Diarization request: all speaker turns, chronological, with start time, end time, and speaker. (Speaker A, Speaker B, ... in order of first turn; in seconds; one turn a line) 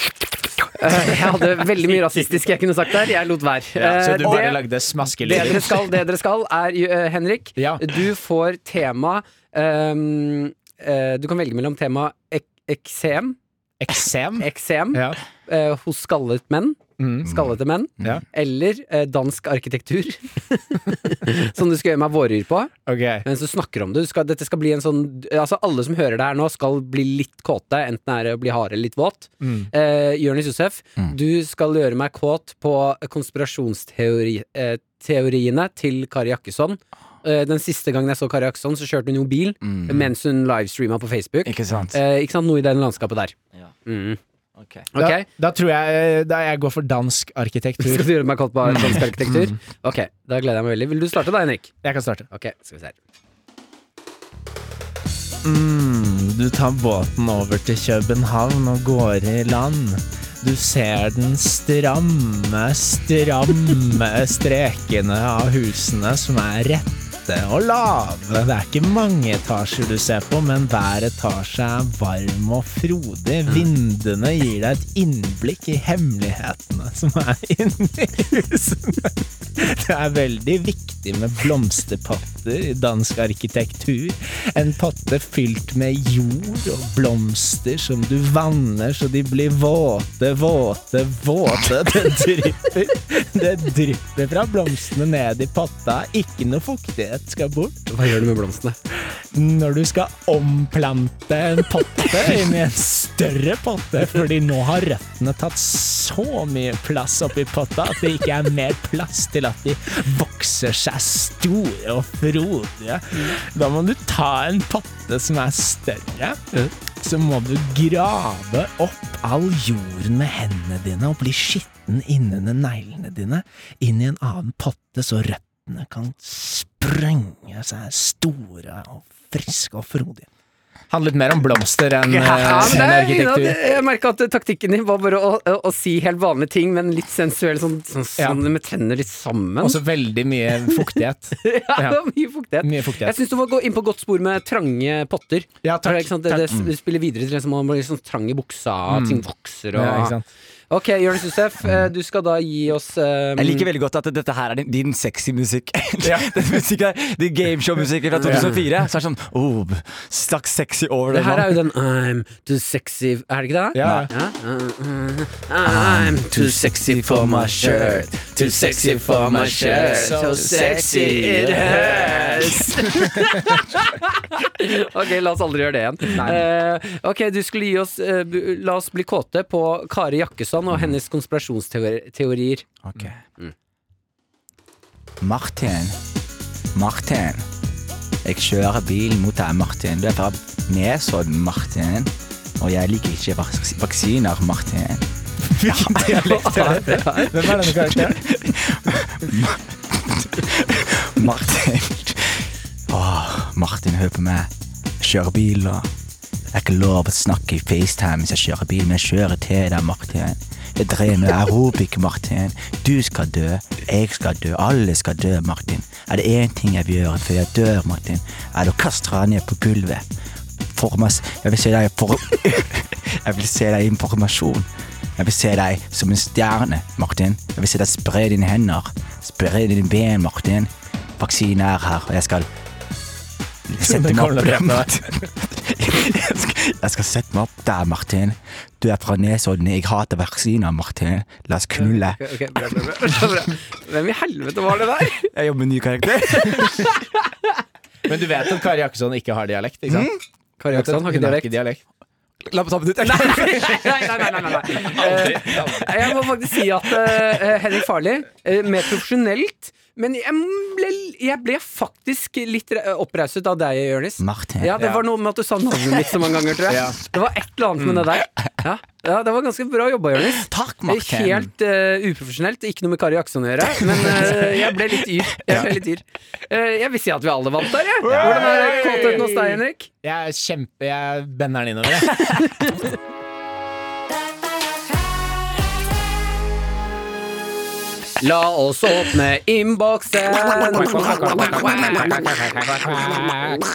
Speaker A: 0.7-13.4
Speaker B: 3.8-5.9
Speaker C: 4.2-4.5
Speaker B: 7.6-7.9
Speaker B: 13.8-15.2
Speaker A: 14.4-22.7
Speaker B: 17.0-17.3
Speaker B: 22.9-23.2
Speaker A: 23.2-43.3
Speaker B: 29.4-29.7
Speaker C: 39.6-40.1
Speaker C: 41.5-42.0
Speaker A: 43.9-44.2
Speaker C: 44.6-44.9
Speaker A: 44.9-45.2
Speaker B: 45.0-48.1
Speaker A: 47.8-51.7
Speaker B: 48.6-49.5
Speaker B: 51.8-52.3
Speaker A: 52.3-53.0
Speaker B: 55.4-97.9
Speaker A: 97.9-98.8
Speaker B: 99.1-130.3
Speaker B: 130.9-133.6
Speaker A: 132.1-139.8
Speaker B: 139.6-142.0
Speaker A: 140.7-150.2
Speaker B: 142.6-143.2
Speaker B: 145.6-146.5
Speaker B: 148.9-150.2
Speaker A: 150.7-153.7
Speaker C: 153.4-161.6
Speaker B: 156.0-156.5
Speaker A: 158.1-158.6
Speaker B: 158.2-158.6
Speaker A: 161.1-182.7
Speaker B: 163.7-164.1
Speaker C: 163.8-164.1
Speaker C: 165.7-172.2
Speaker B: 169.4-173.6
Speaker B: 176.1-176.5
Speaker C: 182.8-183.2
Speaker C: 185.2-186.0
Speaker C: 186.8-187.4
Speaker C: 188.2-195.1
Speaker B: 195.5-198.3
Speaker C: 195.7-196.7
Speaker A: 196.0-197.6
Speaker C: 197.6-204.5
Speaker C: 205.0-205.9
Speaker C: 206.5-220.0
Speaker C: 220.7-232.5
Speaker C: 233.7-242.3
Speaker B: 233.8-235.3
Speaker A: 241.8-245.3
Speaker C: 245.3-246.9
Speaker A: 246.3-247.5
Speaker B: 248.1-250.1
Speaker C: 249.9-250.2
Speaker A: 250.6-251.5
Speaker B: 250.7-251.8
Speaker C: 252.4-256.0
Speaker A: 253.0-279.9
Speaker B: 254.9-255.8
Speaker C: 264.2-264.8
Speaker B: 266.7-267.0
Speaker C: 270.4-271.5
Speaker C: 278.0-279.3
Speaker B: 278.1-282.2
Speaker A: 282.2-282.9
Speaker A: 288.2-293.6
Speaker B: 290.8-293.3